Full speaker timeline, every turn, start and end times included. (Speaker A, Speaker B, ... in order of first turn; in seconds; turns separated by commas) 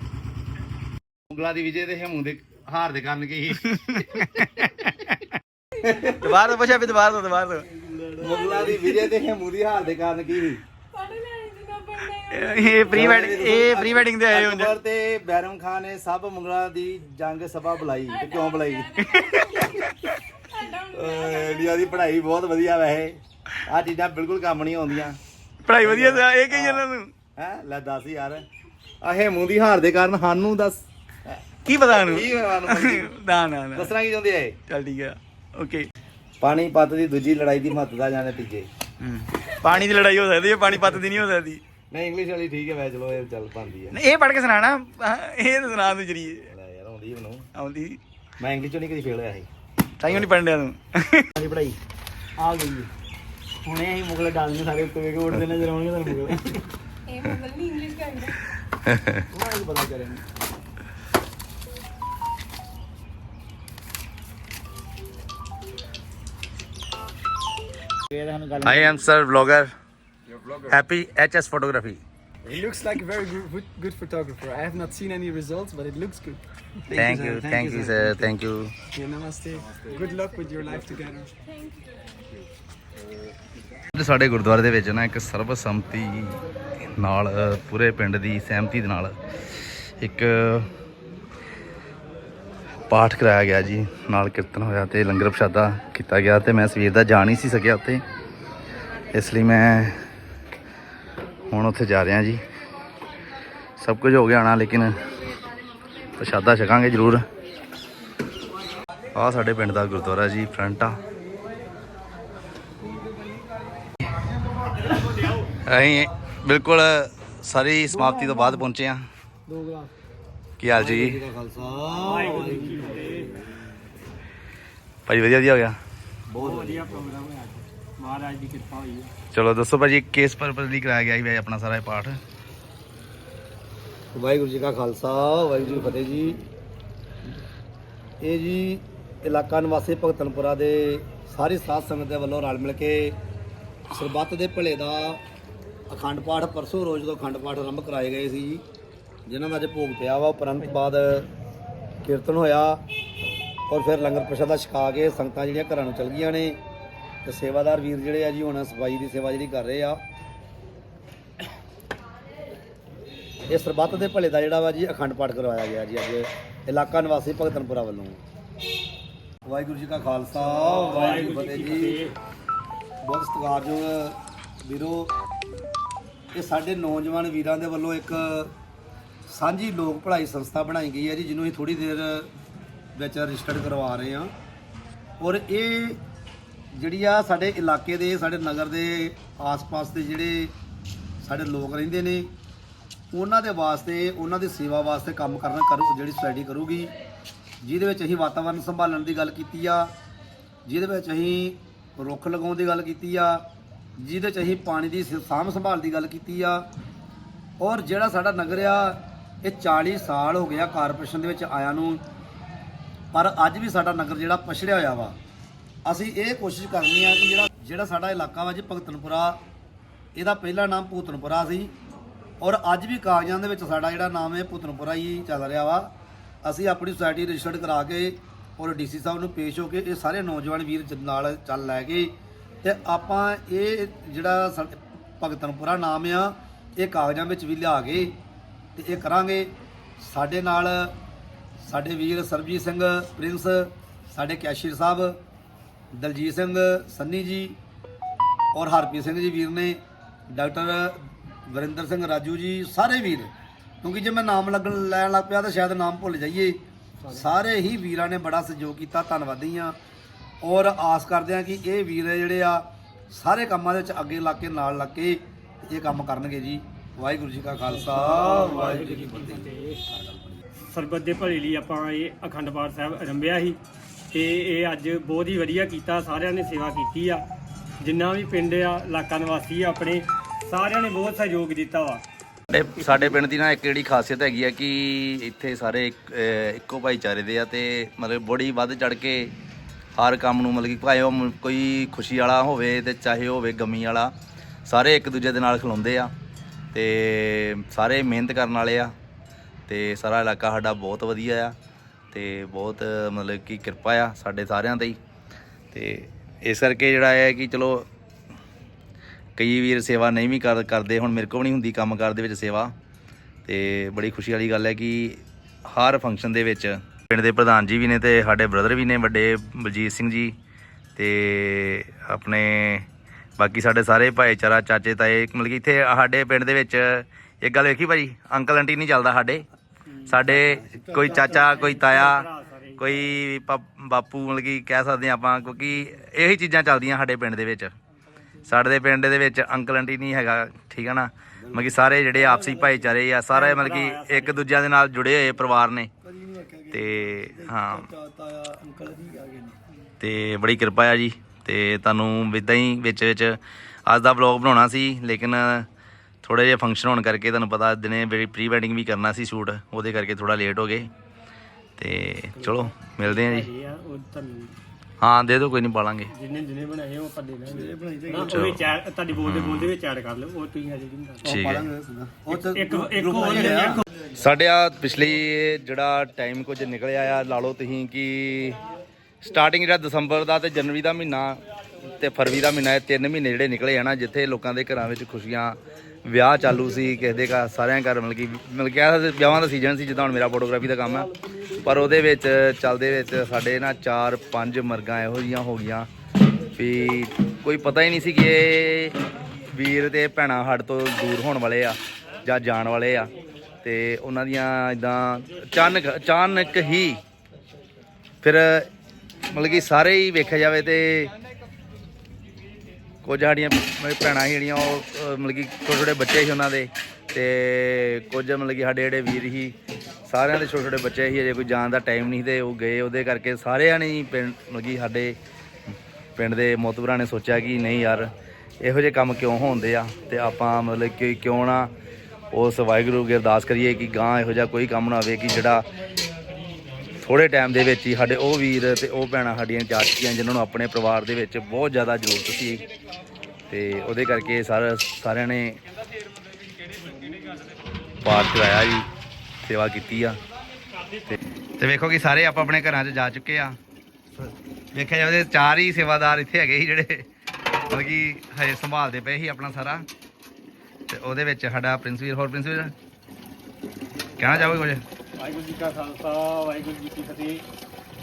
Speaker A: 1.3-4.3, Speaker B: 3.7-4.9, Speaker A: 5.8-6.4, Speaker B: 6.2-7.7, Speaker A: 8.1-10.6, Speaker C: 11.0-12.1, Speaker B: 12.0-14.7, Speaker A: 12.8-19.1, Speaker B: 18.9-19.9, Speaker A: 20.8-25.2, Speaker B: 25.6-27.1, Speaker A: 25.8-26.9, Speaker A: 27.4-28.4, Speaker A: 29.0-33.1, Speaker B: 31.7-33.9, Speaker A: 33.7-34.6, Speaker B: 34.7-35.9, Speaker A: 36.4-38.7, Speaker B: 39.0-41.6, Speaker A: 41.9-44.0, Speaker B: 43.9-46.5, Speaker A: 46.5-47.5, Speaker B: 47.5-48.0, Speaker A: 48.4-49.5, Speaker B: 50.0-51.8, Speaker B: 53.6-56.6, Speaker C: 57.3-58.2, Speaker A: 58.9-59.1, Speaker B: 68.1-69.0, Speaker A: 68.6-69.7, Speaker A: 70.6-72.0, Speaker D: 72.5-76.4, Speaker A: 76.9-78.7, Speaker E: 77.5-77.7, Speaker D: 78.9-81.3, Speaker A: 83.9-86.4, Speaker A: 87.0-89.2, Speaker A: 89.8-90.7, Speaker A: 92.9-98.0, Speaker A: 99.1-100.0, Speaker A: 101.5-102.4, Speaker A: 103.8-105.0, Speaker A: 106.2-107.2, Speaker A: 109.1-111.0, Speaker A: 115.7-119.1, Speaker A: 120.6-121.2, Speaker E: 120.7-123.1, Speaker F: 122.0-123.3, Speaker A: 125.1-125.8, Speaker E: 126.3-127.0, Speaker F: 126.4-129.1, Speaker A: 129.3-132.2, Speaker E: 134.2-136.4, Speaker E: 138.2-143.2, Speaker E: 143.9-145.2, Speaker E: 145.9-148.6, Speaker E: 149.3-151.3, Speaker E: 152.0-152.8, Speaker E: 153.7-156.6, Speaker E: 157.2-160.0, Speaker E: 163.5-168.2, Speaker E: 169.4-172.0, Speaker F: 170.7-172.2, Speaker E: 173.0-175.1, Speaker E: 176.3-178.5, Speaker E: 179.3-182.3, Speaker E: 182.9-184.3, Speaker E: 185.2-186.0, Speaker E: 186.7-190.5, Speaker E: 191.2-192.3, Speaker E: 193.1-196.9, Speaker E: 197.6-199.9, Speaker E: 200.7-203.4, Speaker E: 204.0-206.7, Speaker E: 207.6-212.0, Speaker E: 213.1-215.2, Speaker E: 215.8-219.4, Speaker E: 220.2-221.7, Speaker E: 222.4-225.9, Speaker E: 226.4-238.2, Speaker E: 238.8-240.9, Speaker E: 241.6-245.2, Speaker E: 245.9-247.6, Speaker E: 248.5-253.3, Speaker E: 253.8-259.8, Speaker E: 260.4-270.4, Speaker F: 267.8-269.8, Speaker F: 270.7-273.6, Speaker F: 274.1-277.2, Speaker F: 277.8-282.0, Speaker A: 282.5-289.3, Speaker A: 290.0-294.1, Speaker A: 294.6-296.1, Speaker A: 296.7-298.9, Speaker A: 299.7-301.5, Speaker A: 302.1-305.0, Speaker A: 305.7-307.9, Speaker A: 309.4-312.7, Speaker A: 313.5-320.3, Speaker A: 321.0-322.9, Speaker A: 323.4-329.4, Speaker F: 330.0-332.9, Speaker A: 330.1-332.3, Speaker A: 332.8-337.7, Speaker A: 338.4-345.9, Speaker E: 342.2-342.7, Speaker F: 343.3-344.5, Speaker E: 346.1-349.5, Speaker A: 346.7-347.9, Speaker A: 350.0-355.7, Speaker A: 356.2-360.9, Speaker A: 361.8-363.5, Speaker F: 362.4-364.6, Speaker A: 365.0-366.1, Speaker F: 366.1-371.4, Speaker E: 367.5-368.4, Speaker A: 368.3-369.7, Speaker A: 371.2-371.7, Speaker E: 371.2-373.8, Speaker F: 372.3-373.8, Speaker A: 374.1-378.6, Speaker A: 379.2-395.9, Speaker A: 396.6-399.0, Speaker A: 399.5-403.1, Speaker A: 403.6-407.0, Speaker A: 408.2-408.7, Speaker A: 409.3-411.1, Speaker A: 413.0-419.5, Speaker A: 420.1-425.2, Speaker A: 426.2-428.1, Speaker A: 428.6-431.7, Speaker A: 432.3-435.7, Speaker A: 436.9-442.6, Speaker A: 443.5-445.6, Speaker A: 448.0-448.9, Speaker A: 449.4-450.2, Speaker A: 451.6-453.6, Speaker A: 454.2-457.1, Speaker A: 457.7-459.9, Speaker A: 460.9-462.7, Speaker A: 464.2-464.8, Speaker F: 465.2-467.4